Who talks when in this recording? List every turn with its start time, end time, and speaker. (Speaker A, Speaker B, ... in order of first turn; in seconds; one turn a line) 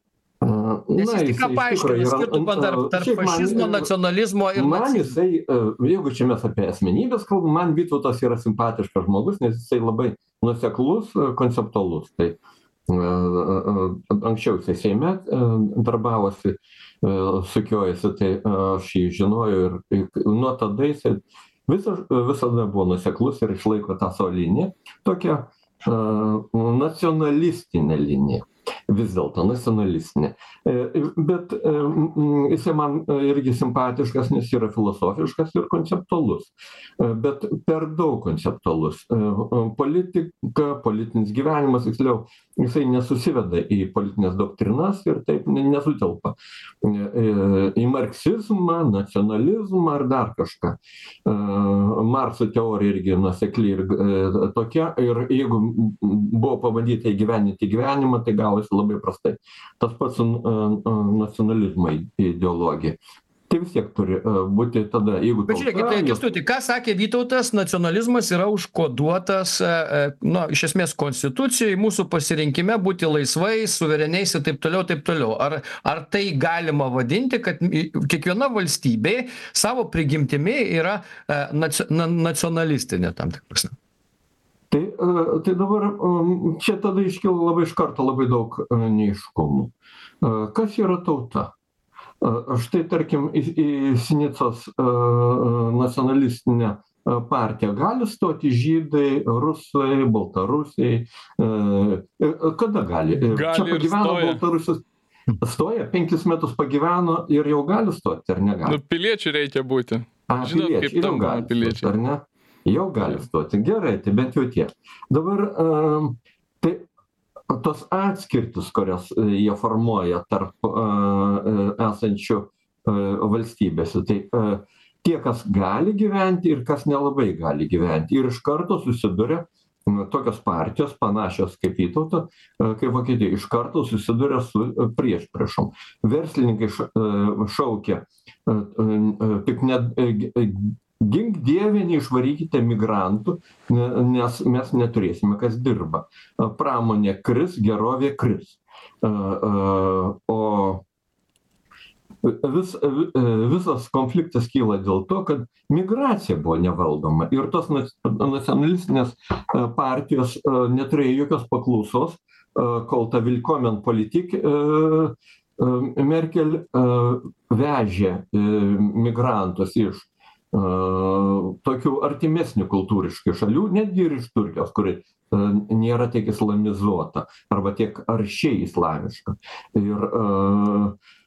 Speaker A: 0.4-3.9
Speaker B: 1.0-5.2
Speaker A: 4.5-12.4
Speaker A: 12.9-63.0
Speaker A: 63.5-66.2
Speaker B: 65.5-83.7
Speaker A: 84.7-91.5
Speaker A: 92.2-104.8
Speaker C: 103.3-104.4
Speaker A: 105.4-108.8
Speaker C: 108.7-111.9
Speaker A: 110.3-116.8
Speaker A: 117.5-150.8
Speaker A: 152.2-180.9